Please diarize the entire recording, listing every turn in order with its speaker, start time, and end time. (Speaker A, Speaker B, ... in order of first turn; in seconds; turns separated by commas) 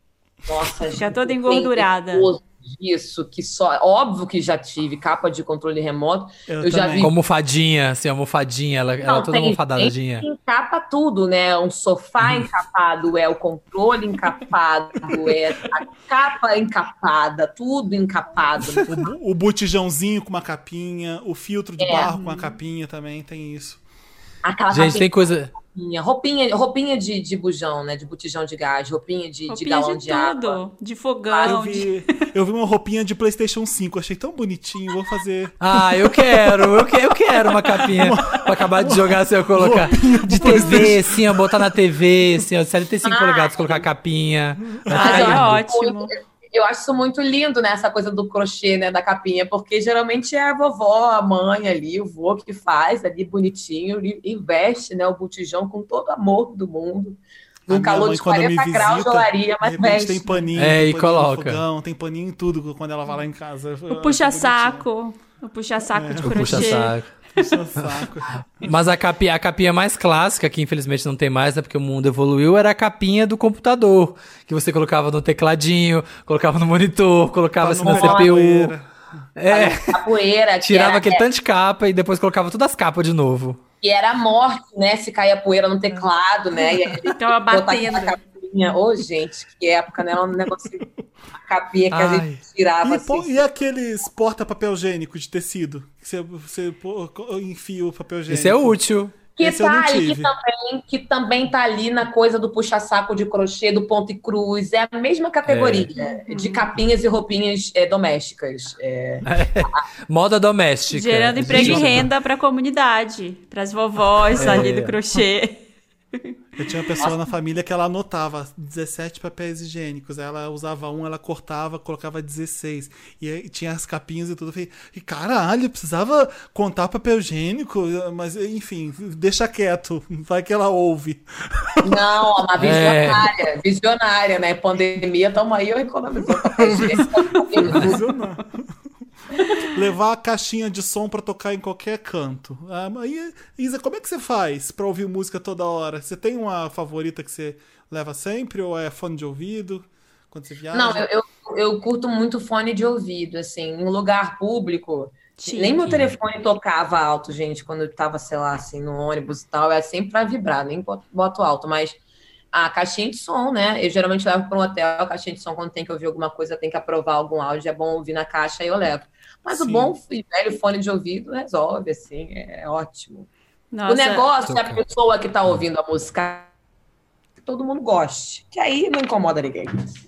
Speaker A: 0.5-7.1, Speaker B: 0.9-2.3, Speaker C: 6.5-7.1, Speaker D: 7.0-10.3, Speaker A: 9.1-19.0, Speaker C: 18.9-23.8, Speaker A: 21.8-22.1, Speaker B: 21.9-22.6, Speaker A: 24.4-30.6, Speaker D: 24.7-25.5, Speaker B: 29.5-32.0, Speaker A: 31.3-31.6, Speaker C: 31.4-36.9, Speaker D: 35.6-45.5, Speaker C: 37.8-41.7, Speaker B: 40.4-40.9, Speaker A: 43.0-43.9, Speaker C: 44.6-46.1, Speaker B: 44.9-46.0, Speaker A: 45.0-60.4, Speaker C: 57.7-64.8, Speaker D: 60.6-61.6, Speaker B: 63.9-67.5, Speaker C: 65.9-68.8, Speaker D: 66.2-67.1, Speaker D: 68.6-78.7, Speaker C: 77.6-78.9, Speaker A: 77.8-78.4, Speaker D: 79.4-80.0, Speaker A: 79.5-81.2, Speaker D: 80.6-83.6, Speaker A: 83.8-93.4, Speaker C: 86.7-87.1, Speaker B: 87.2-88.2, Speaker D: 91.9-92.4, Speaker C: 92.8-98.8, Speaker D: 98.3-99.2, Speaker A: 99.4-109.8, Speaker C: 99.4-100.3, Speaker D: 105.5-105.9, Speaker B: 106.0-106.7, Speaker D: 109.3-112.1, Speaker B: 110.9-115.6, Speaker C: 111.4-112.1, Speaker D: 114.4-115.0, Speaker C: 114.4-114.7, Speaker C: 116.6-132.2, Speaker A: 131.8-138.0, Speaker D: 132.6-133.3, Speaker C: 136.4-138.7, Speaker C: 139.5-151.1, Speaker A: 150.7-162.0, Speaker B: 155.4-156.1, Speaker A: 162.5-173.3, Speaker C: 169.5-170.0, Speaker B: 173.7-174.3, Speaker A: 173.9-176.5, Speaker D: 174.4-174.8, Speaker A: 177.4-179.9